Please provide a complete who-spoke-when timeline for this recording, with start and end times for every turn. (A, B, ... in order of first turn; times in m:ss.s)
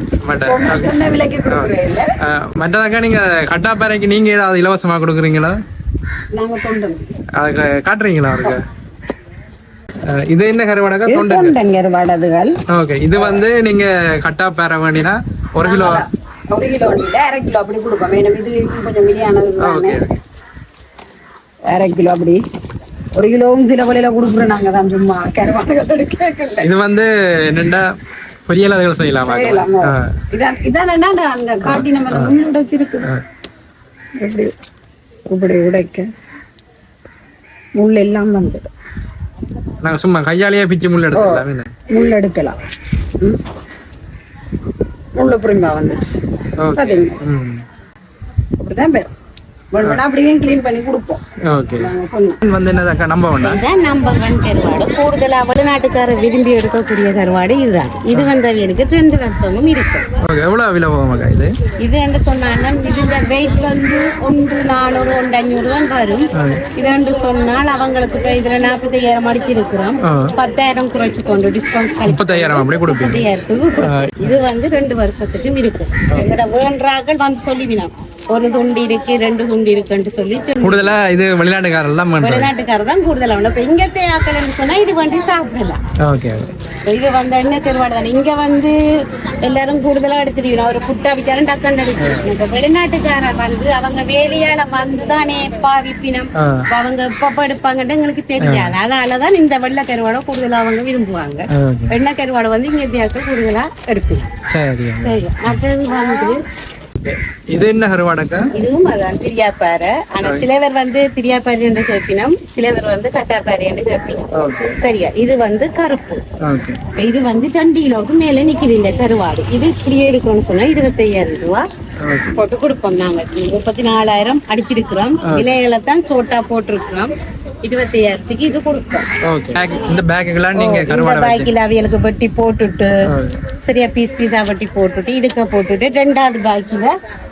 0:00.2-0:01.0 A
0:00.4-0:02.2 B
0:01.5-0:05.6 A
0:06.3-0:07.1 B
0:07.4-0:08.6 A
0:10.0-0:11.6 A
0:11.1-0:12.5 B
0:12.7-0:16.0 A
0:15.6-0:20.1 B
0:19.6-0:20.1 A
0:21.7-0:22.4 B
0:23.2-0:26.7 B
0:26.6-0:27.9 A
0:28.5-0:30.1 A
0:29.2-0:33.1 B
0:31.6-0:32.4 A
0:34.2-0:34.5 B
0:35.3-0:36.1 B
0:37.8-0:38.7 B
0:39.8-0:41.7 A
0:41.1-0:42.6 B
0:45.2-0:46.2 B
0:46.6-0:47.6 A
0:46.7-0:47.2 B
0:48.6-0:49.1 B
0:49.7-0:51.2 B
0:51.5-0:53.6 A
0:51.8-0:52.4 B
0:53.4-1:00.0 C
1:00.2-1:01.5 A
1:01.8-1:20.9 C
1:06.4-1:06.6 A
1:10.0-1:10.3 A
1:12.0-1:13.2 A
1:13.8-1:14.4 A
1:20.6-1:22.5 A
1:22.2-1:25.8 C
1:26.0-1:26.5 A
1:26.9-1:28.8 C
1:29.4-1:44.2 C
1:32.0-1:32.3 A
1:36.4-1:36.7 A
1:38.4-1:38.8 A
1:41.5-1:42.0 A
1:44.5-1:45.6 A
1:45.0-1:46.4 C
1:47.0-1:48.5 A
1:48.5-1:56.2 C
1:54.3-1:54.8 A
1:56.4-1:56.8 A
1:57.0-2:01.6 C
2:02.0-2:02.4 A
2:02.3-2:07.1 C
2:05.2-2:05.6 A
2:07.6-2:09.1 C
2:09.2-2:11.5 A
2:10.5-2:12.9 C
2:13.1-2:13.4 A
2:13.6-2:16.9 C